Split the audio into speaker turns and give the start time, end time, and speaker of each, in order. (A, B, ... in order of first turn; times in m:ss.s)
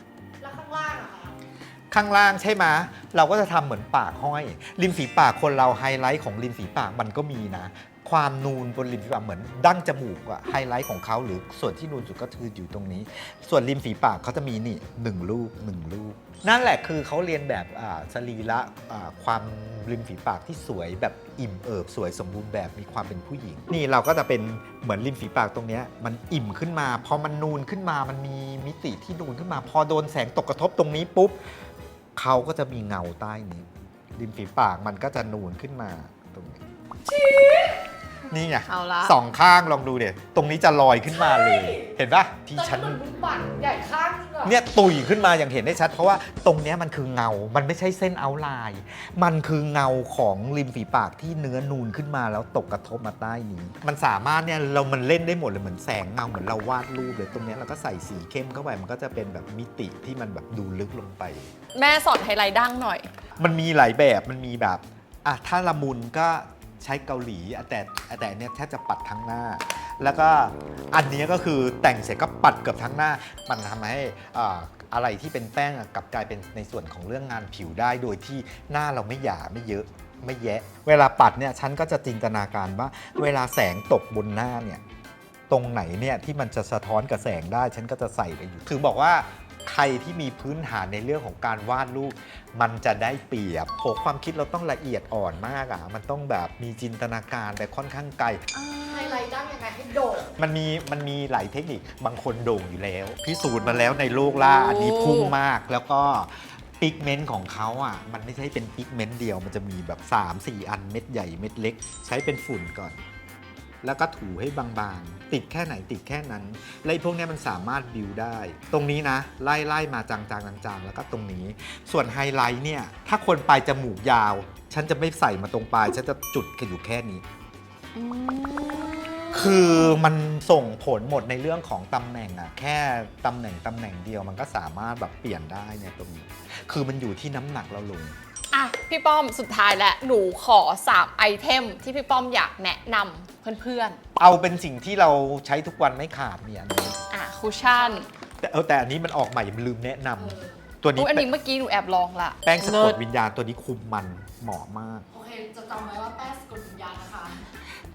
0:00.4-0:01.4 A
0:01.9-0:31.4 B
0:32.2-0:36.6 B
0:37.2-0:37.7 A
0:38.3-0:43.0 B
0:38.6-0:39.1 C
0:41.1-0:41.9 A
0:42.5-0:44.6 A
0:44.4-1:01.5 B
1:01.7-1:03.1 C
1:03.4-1:24.8 B
1:25.5-1:38.4 B
1:38.5-1:39.2 C
1:38.9-1:40.3 A
1:40.4-1:53.0 B
1:43.6-1:45.3 C
1:53.8-2:07.2 B
2:07.9-2:10.0 C
2:09.3-2:18.2 B
2:18.5-2:24.0 C
2:24.2-2:27.0 B
2:27.1-2:28.1 C
2:27.7-2:28.1 A
2:28.4-2:31.3 B
2:30.2-2:30.6 A
2:31.0-2:33.0 C
2:32.4-2:35.1 B
2:35.1-2:37.4 A